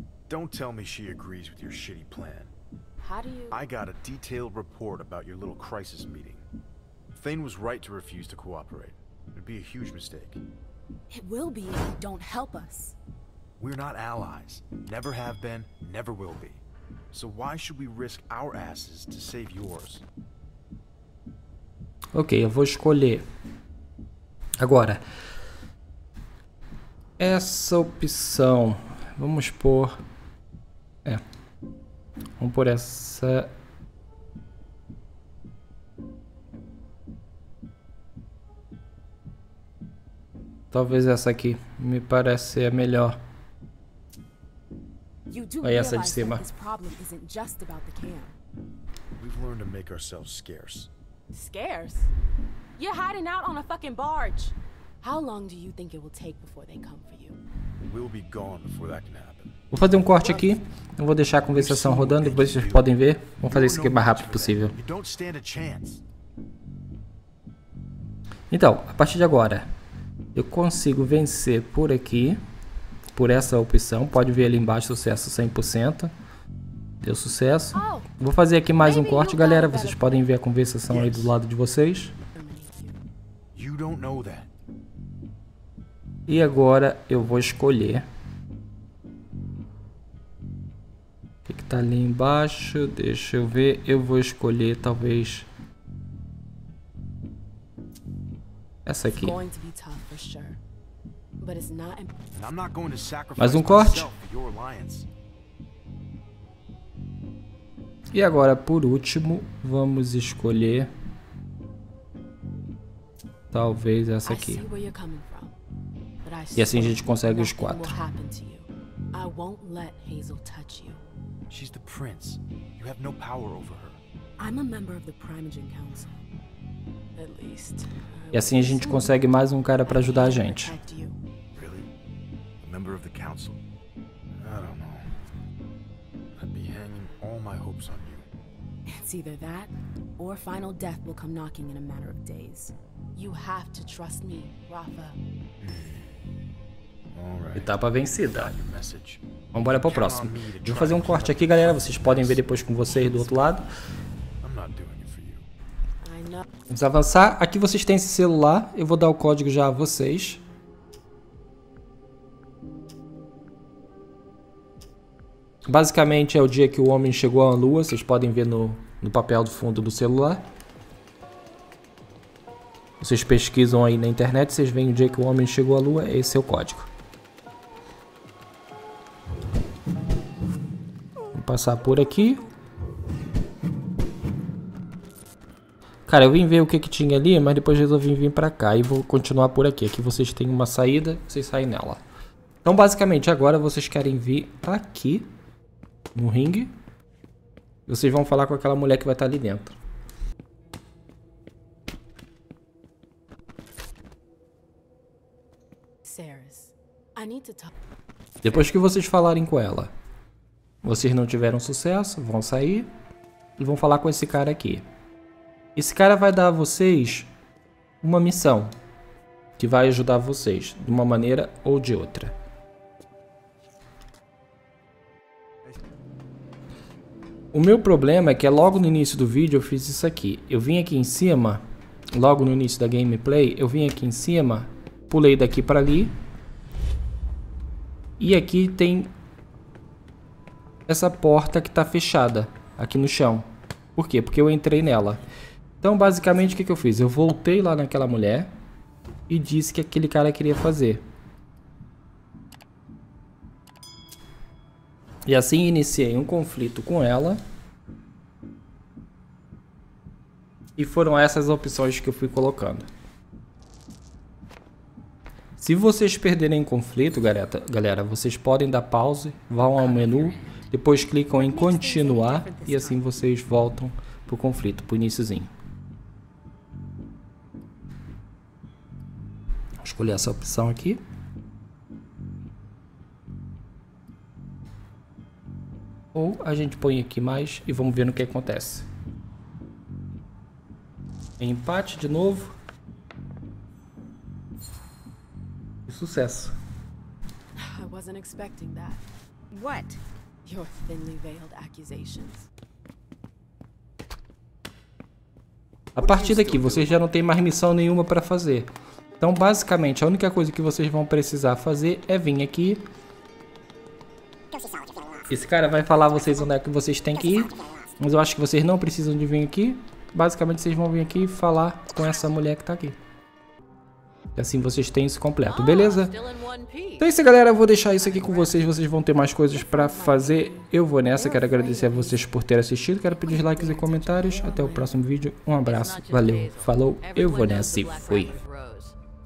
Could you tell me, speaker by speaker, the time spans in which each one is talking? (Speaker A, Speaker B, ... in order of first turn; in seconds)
Speaker A: 0.3-2.5, 3.5-6.5, 7.1-10.4, 13.6-20.0, 49.2-50.9, 57.8-59.5, 61.5-62.9, 63.4-66.0, 80.9-81.3, 83.5-84.5, 102.3-105.1, 121.5-124.0, 131.6-131.9, 132.6-133.6, 134.4-135.1, 136.3-138.2, 145.6-146.1, 147.1-149.2, 149.8-152.4, 154.4-155.5, 306.0-307.0
Speaker B: 3.0-3.6, 11.1-13.0, 45.3-48.4, 51.3-52.1, 52.8-57.4, 77.7-78.0, 78.8-80.2, 82.3-83.0, 99.2-100.6, 101.4-102.1, 114.2-115.5, 116.2-121.0, 124.4-126.1, 127.2-129.2, 129.8-131.2, 138.9-145.2, 152.8-153.6, 156.0-156.4, 206.0-207.7, 271.4-273.0, 297.6-302.5, 329.5-332.2, 333.2-334.9
Speaker C: 22.1-23.2, 24.6-25.0, 27.2-29.9, 32.4-33.5, 40.7-43.2, 45.6-46.5, 59.7-64.7, 68.5-69.7, 70.3-72.4, 73.1-76.1, 77.0-82.1, 86.3-88.0, 91.5-95.5, 98.8-99.4, 103.4-104.1, 108.1-110.9, 113.5-114.6, 116.5-118.0, 128.3-130.8, 147.6-148.5, 149.5-153.7, 156.7-160.4, 165.7-170.4, 173.0-176.9, 181.3-182.4, 186.1-192.0, 192.6-195.3, 196.1-196.7, 197.9-199.8, 208.4-209.9, 210.8-212.9, 213.6-214.8, 215.8-217.3, 218.0-218.7, 219.6-222.3, 227.5-231.6, 232.1-236.1, 238.2-239.1, 240.9-245.2, 245.8-248.5, 249.3-251.0, 255.2-257.4, 260.8-262.9, 265.6-275.5, 279.8-281.0, 286.1-288.9, 291.4-292.5, 295.9-296.5, 305.9-308.7, 309.2-312.8, 315.3-323.0, 324.4-326.1, 327.0-338.4
Speaker D: 325.4-327.1, 335.6-338.9